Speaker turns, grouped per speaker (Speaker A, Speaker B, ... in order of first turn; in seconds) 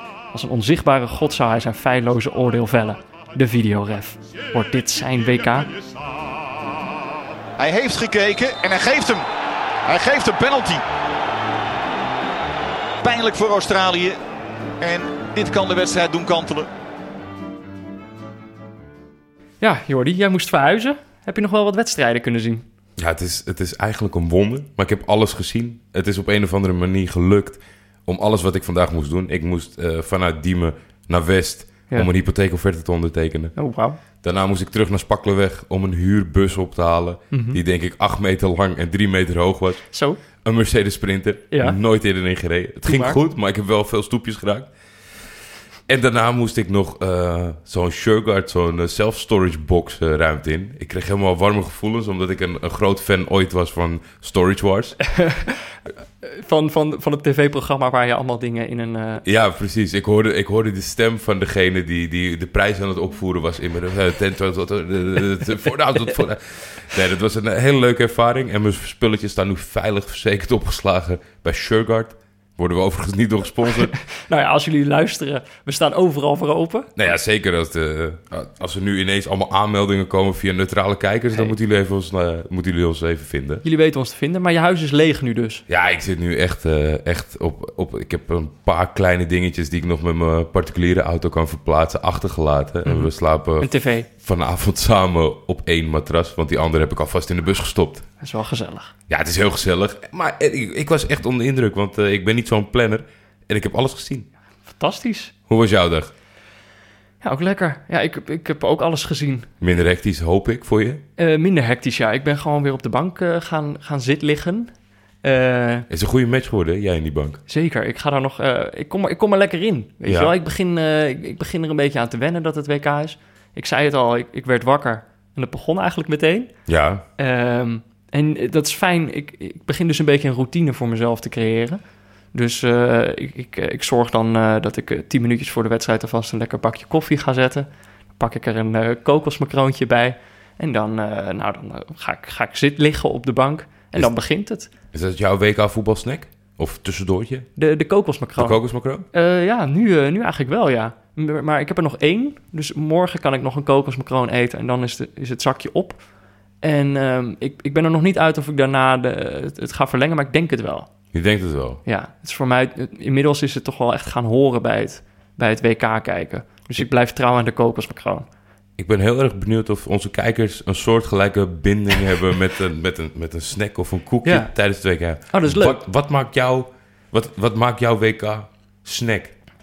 Speaker A: 0.3-5.7, 19.6-22.6, 33.6-34.0, 37.3-37.6, 39.9-40.2, 41.5-41.8, 42.9-43.2, 55.1-55.6, 56.2-59.2, 73.9-76.9, 83.6-85.6, 92.8-94.1, 98.2-98.9, 104.7-105.3, 107.2-109.5, 111.2-114.7, 115.2-115.9, 117.5-126.5, 127.2-131.8, 132.3-144.7, 147.6-156.0, 156.6-160.9, 161.8-168.3, 174.2-174.5, 175.3-175.8
Speaker B: 7.6-9.2, 9.9-10.8, 13.0-14.2, 14.8-16.7
Speaker C: 23.0-33.5, 34.1-44.7, 45.9-55.0, 59.2-73.9, 77.0-83.6, 85.7-98.1, 99.1-104.3, 105.5-106.1, 109.6-111.0, 115.9-117.4, 120.0-120.3, 126.7-127.0, 144.9-147.5, 148.4-149.1, 161.1-161.8, 168.8-179.3